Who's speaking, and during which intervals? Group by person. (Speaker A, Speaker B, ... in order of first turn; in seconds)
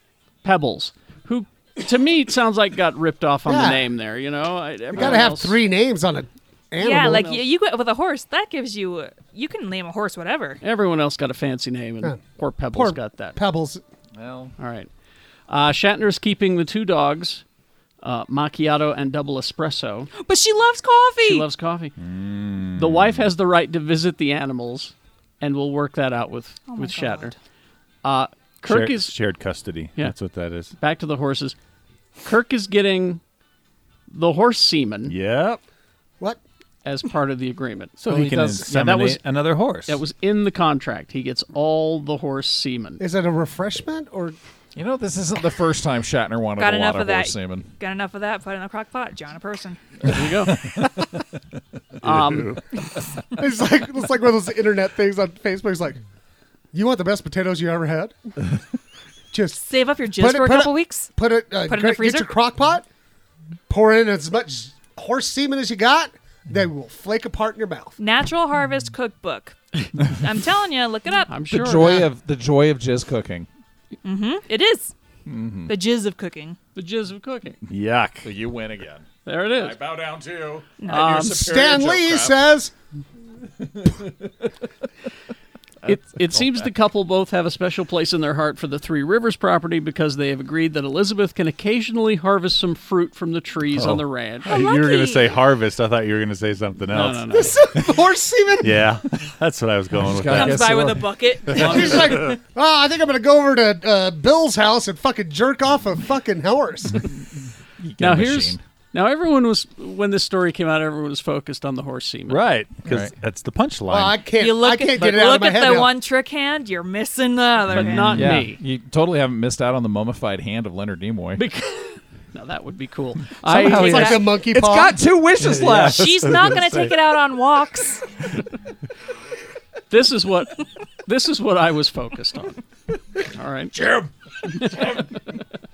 Speaker A: 0.4-5.6, 10.6-13.4, 14.6-14.9, 15.5-17.4, 18.0-20.1, 21.2-21.9, 22.8-27.3, 28.0-29.2, 30.8-31.6, 32.2-33.2, 34.1-35.1, 36.9-39.2, 39.9-43.0, 50.0-50.6, 52.0-52.6, 71.3-72.1, 76.8-77.6, 79.2-79.8, 80.9-81.5, 85.8-94.5, 96.9-97.6, 101.6-102.2, 108.0-112.4, 117.7-118.6, 121.4-124.2, 129.9-132.6, 133.2-133.8, 134.5-135.0
Speaker B: 3.5-3.9, 4.9-7.4, 12.7-13.8, 43.0-44.4, 53.3-56.0, 56.7-58.1, 59.3-59.6, 60.2-62.9, 63.7-68.0, 81.1-82.7, 97.3-98.9, 101.5-107.0, 113.9-115.9, 123.7-125.0
Speaker C: 6.8-10.6, 20.2-21.5, 26.7-27.3, 46.6-50.2, 59.6-61.1, 61.7-62.4, 68.0-69.6, 70.1-71.4, 74.0-74.9, 75.7-76.6, 80.8-81.2, 94.4-95.4, 100.3-102.1, 114.3-118.4, 125.8-128.0
Speaker D: 14.2-14.5, 38.1-39.1, 44.8-47.7, 71.5-73.5, 75.3-75.7, 78.2-82.4, 83.6-84.3, 85.9-86.6, 100.0-101.2, 107.8-108.6, 112.8-113.1, 117.7-121.5, 123.4-126.4
Speaker E: 22.0-23.3, 28.7-30.7, 35.1-35.6, 38.0-40.0, 52.0-52.6, 77.7-78.3, 93.7-97.2, 98.6-100.8, 101.5-102.4, 112.3-114.2, 123.6-124.2, 125.4-126.9